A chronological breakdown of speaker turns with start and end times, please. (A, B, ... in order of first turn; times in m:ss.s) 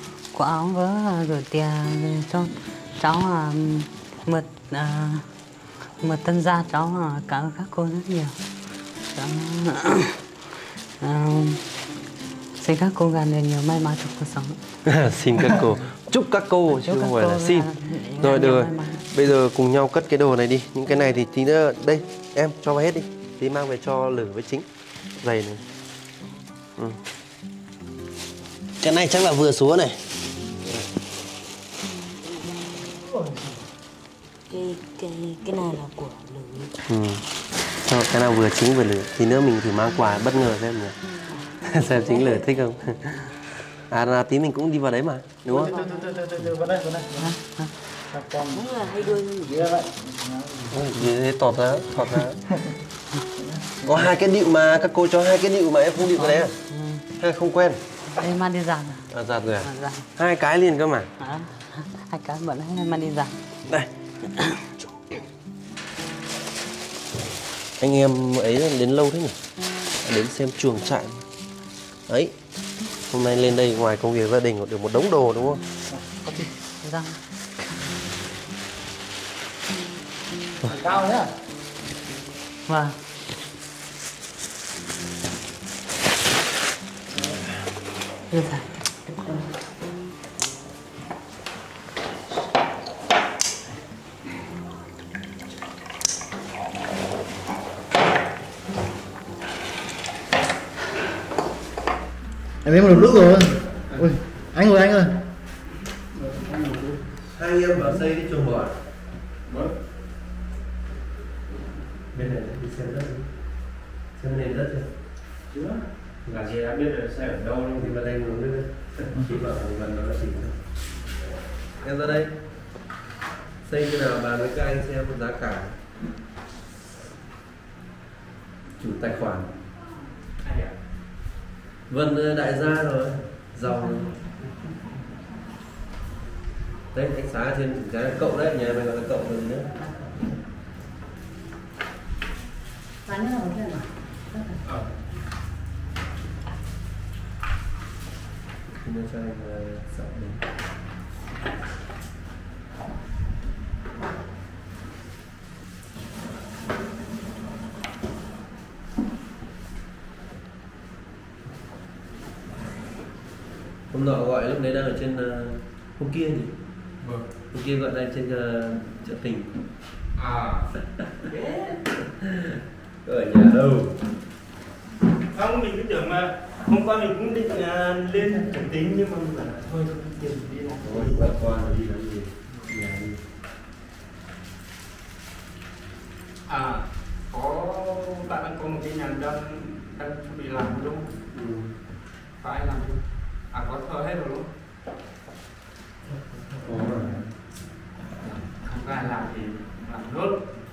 0:00.3-0:05.3 A
0:06.0-0:08.4 A
0:09.1-0:10.2 A
0:11.0-0:11.6 A
0:12.6-0:14.6 A
0:14.8-0:24.7 B
0:16.7-0:19.0 A
0:25.2-0:25.6 B
0:28.8-0:30.0 B
0:32.2-0:33.2 C
0:34.5-0:36.8 C
0:36.9-0:37.2 B
0:37.8-0:41.0 B
0:41.3-0:42.5 C
0:41.6-0:43.2 B
0:43.9-0:45.8 B
0:45.5-0:47.3 D
0:45.6-0:46.3 C
0:47.2-0:47.7 A
0:48.1-0:48.8 D
0:48.5-0:49.8 C
0:49.4-0:50.8 D
0:50.7-0:52.4 B
0:53.4-0:54.1 D
0:53.8-0:56.5 B
0:56.0-0:57.0 A
0:57.2-0:57.8 B
0:58.1-0:59.1 A
0:59.1-1:01.1 B
0:59.6-1:00.1 A
1:01.2-1:03.4 A
1:07.8-1:09.4 B
1:10.0-1:11.2 B
1:12.1-1:12.3 B
1:13.1-1:15.6 B
1:15.9-1:16.5 D
1:16.8-1:17.2 A
1:20.6-1:21.3 D
1:22.7-1:23.0 A
1:28.3-1:28.7 A
1:42.6-1:45.2 D
1:46.2-1:47.0 E
1:47.3-1:48.8 B
1:49.5-1:49.7 E
1:52.1-1:53.3 B
1:54.2-1:54.9 B
1:55.5-1:57.7 E
1:56.2-1:56.5 B
1:57.4-2:00.6 B
2:01.8-2:02.3 B
2:03.6-2:05.8 B
2:08.8-2:09.5 B
2:10.4-2:10.7 E
2:11.9-2:14.1 B
2:16.9-2:19.7 B
2:23.0-2:24.6 A
2:28.8-2:30.4 B
2:43.9-2:46.5 B
2:47.0-2:47.3 E
2:47.5-2:49.5 B
2:50.2-2:50.7 E
2:51.3-2:51.8 E
2:52.1-2:54.0 B
2:55.3-3:01.2 E
3:00.8-3:03.2 B
3:06.5-3:11.1 E
3:11.3-3:11.8 B
3:12.4-3:13.0 E
3:13.5-3:14.5 E
3:16.1-3:17.3 B
3:18.2-3:20.5 E